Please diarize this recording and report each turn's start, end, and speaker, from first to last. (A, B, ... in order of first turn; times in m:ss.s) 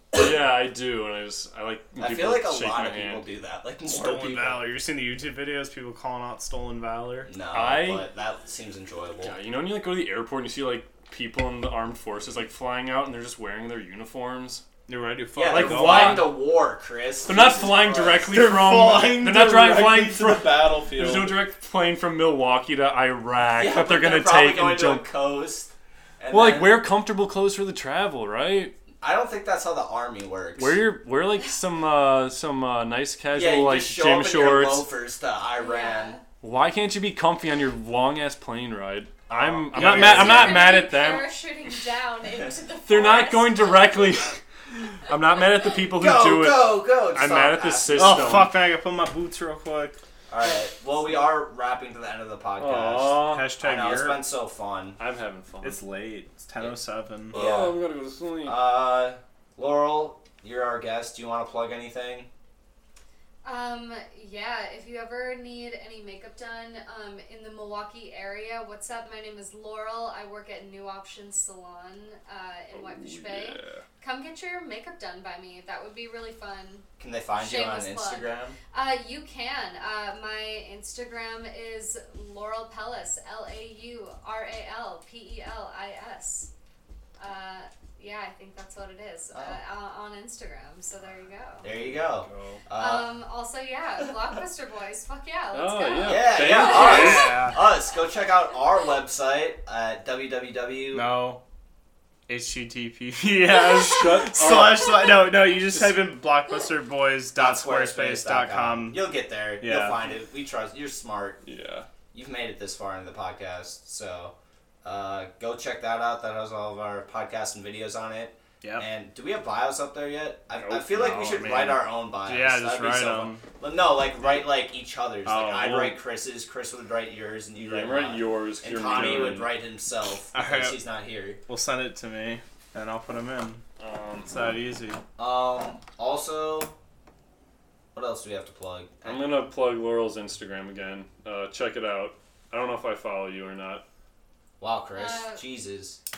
0:00.1-0:03.3 A
0:02.0-0:04.7 B
0:03.9-0:07.3 C
0:07.2-0:09.4 B
0:07.5-0:08.0 A
0:09.2-0:14.6 A
0:14.9-0:16.3 C
0:15.4-0:18.3 B
0:15.4-0:16.3 A
0:17.2-0:25.1 A
0:18.3-0:21.4 C
0:23.5-0:26.8 B
0:26.3-0:28.7 A
0:29.0-0:30.8 B
0:30.6-0:34.9 A
0:33.3-0:36.2 B
0:35.5-0:36.2 D
0:36.4-0:41.3 A
0:39.3-0:40.6 B
0:39.7-0:40.6 C
0:40.1-0:44.3 D
0:42.9-0:44.4 A
0:45.0-0:48.6 A
0:46.0-0:48.4 B
0:47.9-0:50.0 C
0:50.3-0:55.0 B
0:52.6-0:53.5 A
0:53.2-0:54.2 C
0:55.0-0:55.8 A
0:55.6-0:57.4 C
0:57.3-0:58.6 A
0:57.3-0:57.8 B
0:58.4-1:02.3 B
1:03.4-1:26.5 D
1:12.7-1:13.8 A
1:17.0-1:18.6 B
1:27.2-1:31.7 D
1:29.3-1:29.6 B
1:31.6-1:33.1 B
1:31.8-1:32.6 A
1:32.8-1:37.1 D
1:35.5-1:37.4 A
1:36.0-1:41.1 B
1:36.6-1:37.6 C
1:40.9-1:41.4 C
1:42.3-1:49.0 C
1:43.6-1:46.1 A
1:47.3-1:51.4 B
1:49.6-1:50.0 C
1:51.4-1:51.9 A
1:52.1-2:11.4 B
2:00.6-2:00.9 A
2:00.8-2:03.4 C
2:05.2-2:06.0 C
2:07.6-2:09.5 A
2:10.3-2:10.8 C
2:11.5-2:13.6 C
2:13.8-2:14.3 A
2:14.2-2:15.0 C
2:15.2-2:16.7 B
2:17.9-2:19.4 B
2:19.0-2:23.8 A
2:24.6-2:26.0 B
2:24.9-2:25.4 D